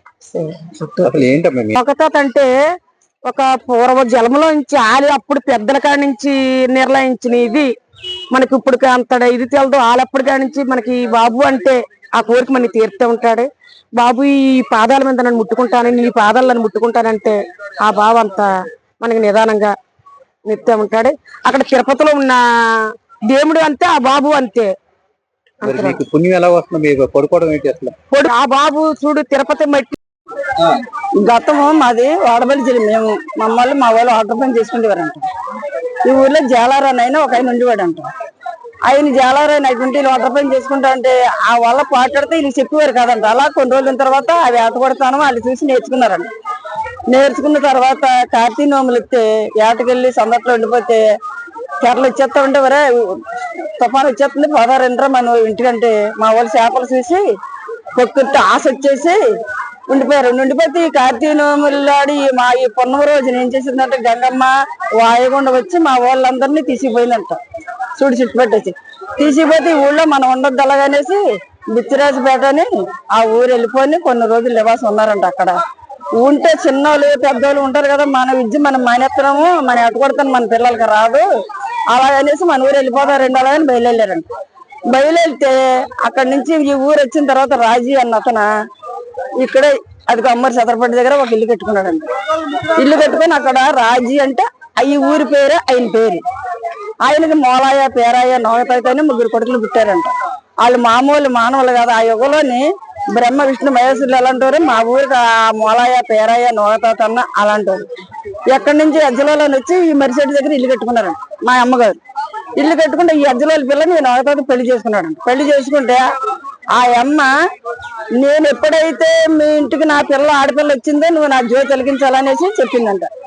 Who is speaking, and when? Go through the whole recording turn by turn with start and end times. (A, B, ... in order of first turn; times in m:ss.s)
0:00.3-0:02.5 A
0:01.0-0:01.7 B
0:03.3-0:07.7 A
0:08.3-0:18.5 A
0:19.0-0:19.7 A
0:20.5-0:22.4 A
0:23.3-0:24.7 A
0:25.6-0:26.1 A
0:26.0-0:27.9 B
0:28.1-0:30.0 A
0:31.2-0:35.3 C
0:36.0-0:38.1 C
0:38.9-0:46.3 C
0:47.1-0:51.0 C
0:51.8-0:53.2 C
0:53.8-0:57.2 C
0:58.0-0:59.2 C
0:59.9-1:07.4 C
1:08.0-1:11.2 C
1:11.7-1:15.6 C
1:16.2-1:21.2 C
1:21.9-1:24.3 C
1:24.9-1:28.5 C
1:29.4-1:32.1 C
1:32.8-1:36.2 C
1:37.0-1:47.8 C
1:48.5-1:52.0 C
1:52.6-1:56.0 C
1:56.7-1:57.3 C
1:58.2-2:03.1 C